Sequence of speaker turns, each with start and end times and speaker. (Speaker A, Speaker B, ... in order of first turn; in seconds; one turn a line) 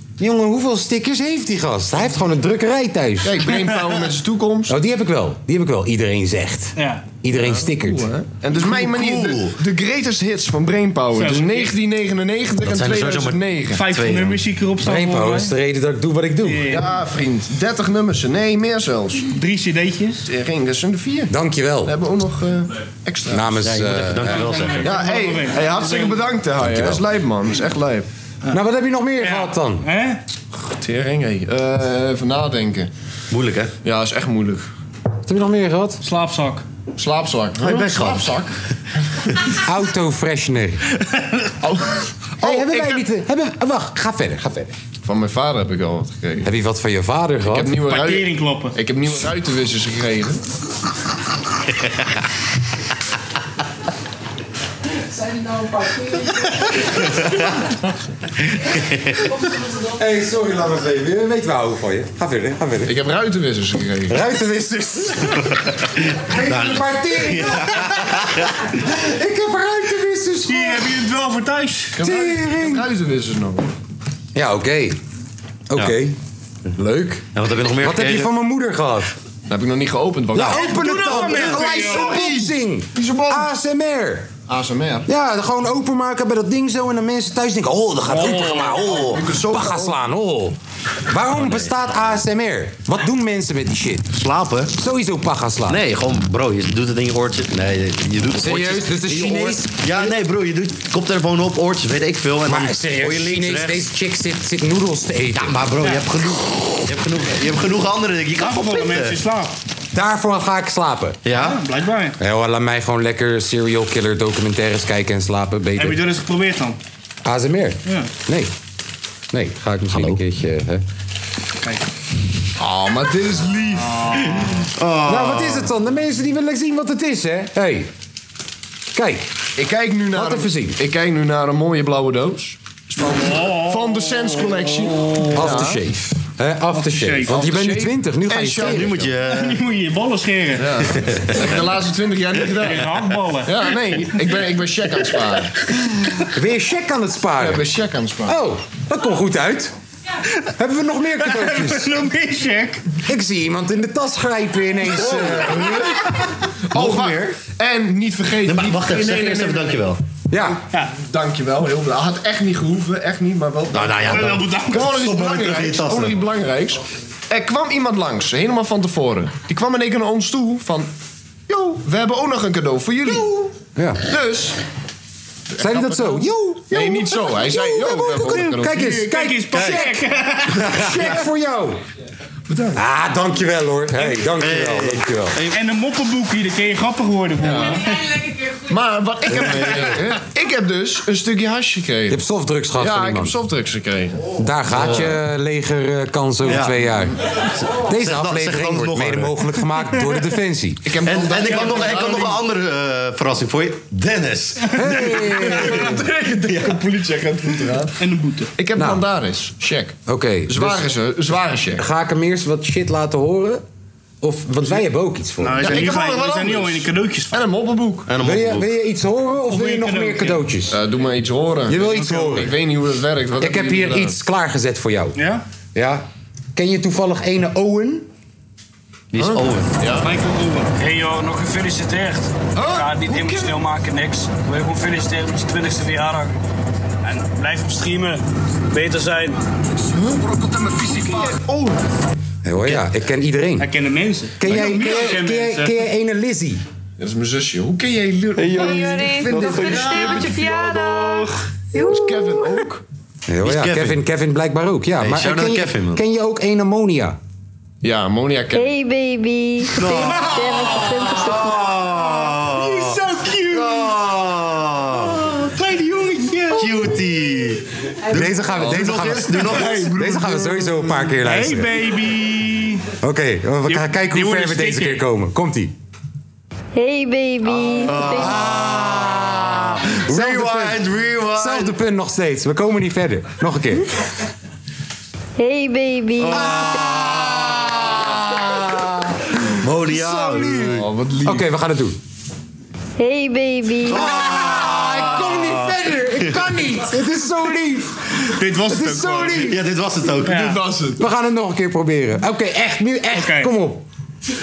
Speaker A: 0.2-3.4
Speaker B: 3.2-4.8
Speaker A: 4.7-8.1
Speaker C: 6.8-7.0
Speaker B: 7.4-13.9
Speaker D: 8.6-9.6
Speaker C: 11.1-11.7
Speaker D: 12.6-14.4
Speaker C: 13.7-15.5
Speaker A: 14.8-16.8
Speaker C: 16.4-16.9
Speaker B: 16.7-19.3
Speaker C: 19.3-20.3
Speaker B: 20.2-21.3
Speaker A: 21.3-21.9
Speaker B: 21.9-23.6
Speaker A: 23.3-24.6
Speaker D: 23.6-24.9
Speaker C: 24.3-26.2
Speaker B: 24.8-28.1
Speaker A: 26.6-27.0
Speaker A: 28.5-29.9
Speaker C: 29.2-30.2
Speaker B: 30.7-32.9
Speaker D: 33.3-33.7
Speaker B: 33.8-34.6
Speaker A: 35.2-36.0
Speaker C: 36.0-36.6
Speaker B: 37.0-38.5
Speaker D: 37.6-38.4
Speaker A: 39.6-40.8
Speaker B: 41.6-43.0
Speaker A: 42.4-44.7
Speaker B: 45.0-46.5
Speaker A: 46.4-47.7
Speaker B: 47.4-50.4
Speaker C: 47.9-48.8
Speaker A: 55.2-56.4
Speaker D: 57.1-57.5
Speaker D: 58.5-59.2
Speaker A: 59.8-63.0
Speaker B: 62.9-64.2
Speaker A: 64.1-65.5
Speaker D: 65.6-68.5
Speaker A: 66.1-71.0
Speaker C: 70.5-72.0
Speaker B: 72.0-73.7
Speaker A: 72.0-72.9
Speaker A: 74.3-75.0
Speaker A: 75.7-76.2
Speaker A: 76.8-77.2
Speaker D: 77.3-78.3
Speaker A: 77.8-79.1
Speaker B: 79.5-83.5
Speaker A: 80.3-84.3
Speaker C: 80.5-82.3
Speaker B: 84.5-85.1
Speaker A: 85.1-94.1
Speaker C: 88.1-88.9
Speaker B: 88.8-90.0
Speaker D: 91.3-91.7
Speaker D: 94.1-94.7
Speaker A: 94.7-95.8
Speaker D: 95.7-103.8
Speaker A: 98.4-100.1
Speaker A: 102.4-105.6
Speaker D: 105.4-109.2
Speaker C: 108.4-109.5
Speaker A: 109.9-111.2
Speaker D: 111.2-111.6
Speaker C: 111.4-112.2
Speaker A: 112.2-116.0
Speaker C: 115.8-116.8
Speaker A: 117.2-118.5
Speaker A: 119.3-120.8
Speaker D: 119.9-120.2
Speaker B: 122.6-124.2
Speaker C: 123.8-124.6
Speaker D: 124.4-125.7
Speaker A: 125.1-127.9
Speaker A: 128.9-129.3
Speaker B: 129.6-135.8
Speaker A: 130.1-130.8
Speaker C: 133.1-135.6
Speaker A: 135.3-139.0
Speaker C: 136.7-137.4
Speaker B: 137.2-139.1
Speaker D: 138.6-139.6
Speaker C: 139.2-140.7
Speaker B: 140.6-142.9
Speaker D: 140.9-141.6
Speaker C: 142.6-144.2
Speaker B: 143.4-145.6
Speaker A: 146.3-147.7
Speaker B: 147.4-148.4
Speaker A: 148.2-149.7
Speaker A: 150.6-151.9
Speaker C: 151.2-152.9
Speaker A: 153.1-155.9
Speaker B: 156.7-159.9
Speaker D: 156.8-157.2
Speaker D: 158.4-160.0
Speaker A: 160.3-160.6
Speaker B: 160.9-170.9
Speaker D: 163.7-166.2
Speaker C: 164.1-164.9
Speaker B: 171.5-174.6
Speaker A: 173.8-174.1
Speaker B: 175.6-178.9
Speaker A: 175.6-181.8
Speaker C: 178.6-180.9
Speaker B: 182.5-182.8
Speaker A: 182.7-185.4
Speaker D: 184.4-185.6
Speaker C: 185.5-188.2
Speaker B: 187.4-187.8
Speaker B: 188.7-192.2
Speaker A: 192.1-193.3
Speaker B: 192.8-194.3
Speaker A: 194.4-197.2
Speaker D: 194.7-195.2
Speaker D: 196.5-196.8
Speaker D: 197.4-199.3
Speaker A: 197.7-200.9
Speaker B: 200.8-202.4
Speaker D: 201.1-205.9
Speaker C: 201.4-202.3
Speaker A: 204.8-206.0
Speaker B: 205.2-207.9
Speaker D: 206.5-206.8
Speaker C: 208.0-208.5
Speaker B: 208.6-210.0
Speaker A: 208.8-209.0
Speaker A: 210.1-210.9
Speaker B: 210.5-211.8
Speaker A: 211.8-213.6
Speaker A: 214.2-215.9
Speaker C: 215.4-217.4
Speaker B: 215.5-218.1
Speaker D: 218.1-218.7
Speaker A: 218.2-220.8
Speaker C: 219.5-220.4
Speaker B: 220.7-224.1
Speaker A: 221.7-222.5
Speaker C: 221.9-222.4
Speaker A: 223.4-225.2
Speaker C: 225.2-225.4
Speaker A: 225.7-228.1
Speaker D: 229.1-229.7
Speaker B: 229.2-230.1
Speaker C: 230.0-230.7
Speaker E: 230.8-236.3
Speaker B: 232.6-233.5
Speaker E: 237.0-239.4
Speaker B: 239.9-241.8
Speaker A: 242.4-243.7
Speaker C: 243.6-245.8
Speaker A: 244.4-246.6
Speaker B: 244.5-245.1
Speaker B: 247.0-252.8
Speaker F: 248.5-252.6
Speaker A: 253.3-257.2
Speaker D: 253.4-254.0
Speaker D: 255.0-256.0
Speaker B: 257.8-258.7
Speaker F: 258.5-261.7
Speaker D: 259.7-263.0
Speaker C: 262.0-263.9
Speaker D: 263.5-265.2
Speaker C: 265.0-266.7
Speaker D: 266.5-269.9
Speaker A: 268.1-271.8
Speaker B: 269.4-270.8
Speaker C: 271.2-272.9
Speaker A: 273.0-275.7
Speaker C: 273.7-275.0
Speaker F: 276.7-278.4
Speaker D: 277.4-281.7
Speaker A: 278.1-283.9
Speaker F: 285.4-286.8
Speaker D: 286.2-288.3
Speaker A: 286.3-292.0
Speaker D: 289.6-290.9
Speaker B: 290.6-291.4
Speaker F: 293.0-294.1
Speaker D: 293.9-296.4
Speaker A: 293.9-299.6
Speaker C: 298.2-299.6
Speaker D: 299.4-300.6
Speaker C: 300.2-300.6
Speaker B: 300.2-301.0
Speaker A: 301.0-303.9
Speaker C: 303.1-303.5